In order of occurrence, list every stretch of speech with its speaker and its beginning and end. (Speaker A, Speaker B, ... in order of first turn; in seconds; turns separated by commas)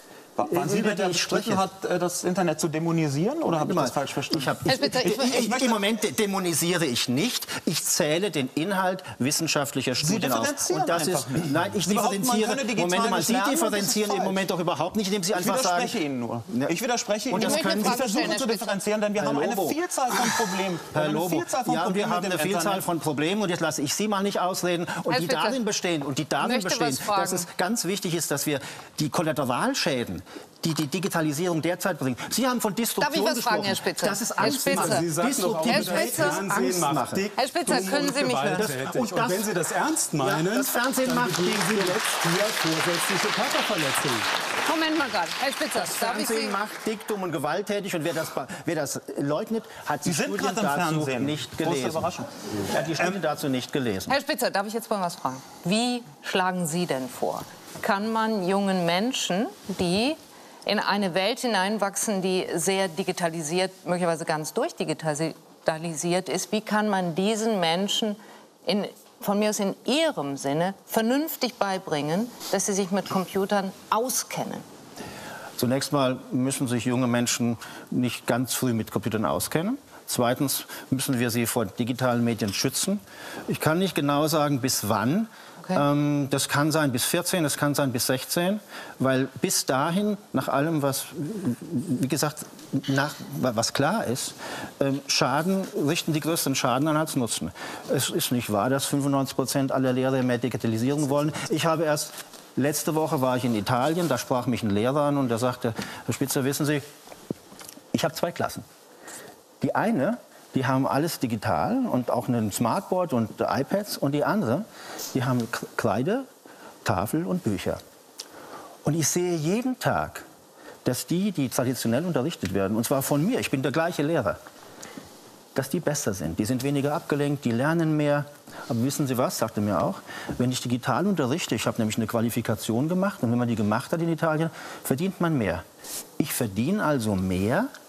Speaker A: 0.4-4.6, Speaker B: 0.5-1.6, Speaker B: 3.5-15.9, Speaker C: 4.7-5.6, Speaker A: 5.2-5.8, Speaker A: 10.0-14.4, Speaker A: 15.3-22.8, Speaker B: 17.3-18.3, Speaker C: 17.4-18.8, Speaker B: 19.1-19.8, Speaker B: 20.9-39.5, Speaker C: 25.1-25.6, Speaker C: 26.4-27.5, Speaker C: 33.0-35.1, Speaker D: 34.4-44.3, Speaker C: 35.6-38.7, Speaker B: 40.2-42.0, Speaker C: 44.6-46.5, Speaker B: 45.7-54.1, Speaker A: 50.0-53.2, Speaker C: 54.1-74.6, Speaker B: 75.6-106.9, Speaker B: 107.9-108.7, Speaker B: 109.6-116.3, Speaker B: 116.8-117.8, Speaker B: 118.8-120.2, Speaker B: 120.8-124.4, Speaker B: 125.5-135.6, Speaker B: 136.2-137.7